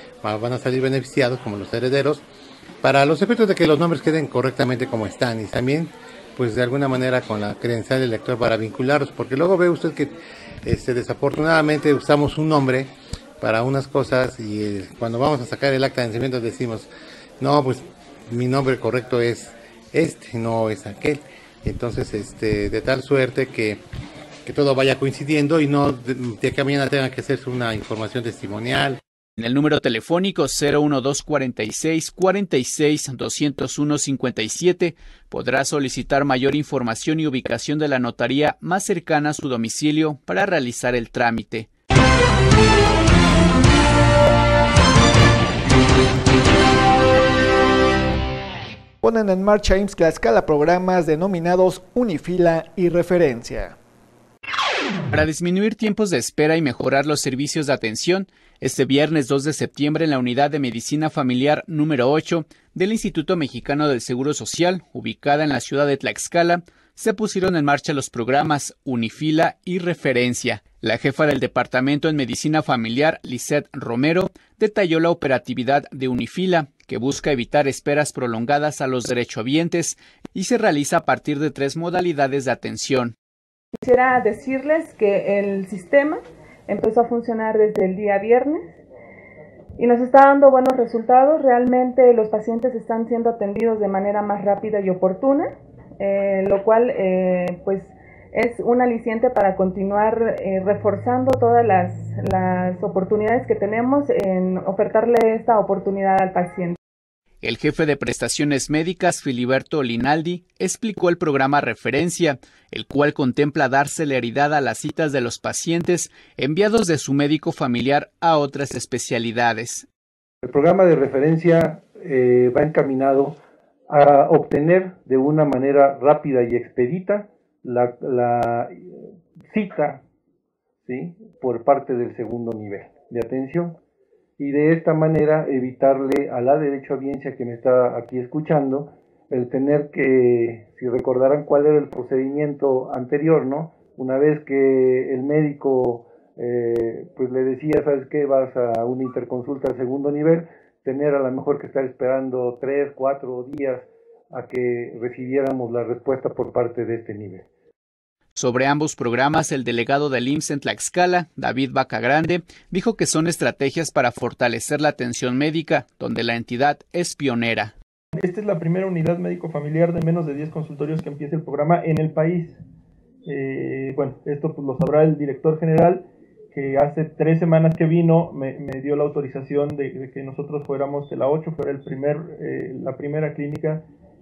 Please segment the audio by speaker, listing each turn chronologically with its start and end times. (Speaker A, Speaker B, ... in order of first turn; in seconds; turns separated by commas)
Speaker A: 0.2-2.2, Speaker A: 2.8-10.1, Speaker A: 10.6-16.9, Speaker A: 17.4-23.8, Speaker A: 24.4-29.0, Speaker B: 29.4-41.7, Speaker C: 49.0-53.8, Speaker B: 55.1-83.1, Speaker D: 83.8-88.8, Speaker D: 89.8-106.8, Speaker B: 107.4-119.8, Speaker E: 120.4-123.4, Speaker E: 123.9-130.0, Speaker E: 130.8-133.8, Speaker E: 134.4-157.4, Speaker B: 158.3-167.7, Speaker F: 168.2-172.6, Speaker F: 173.2-183.8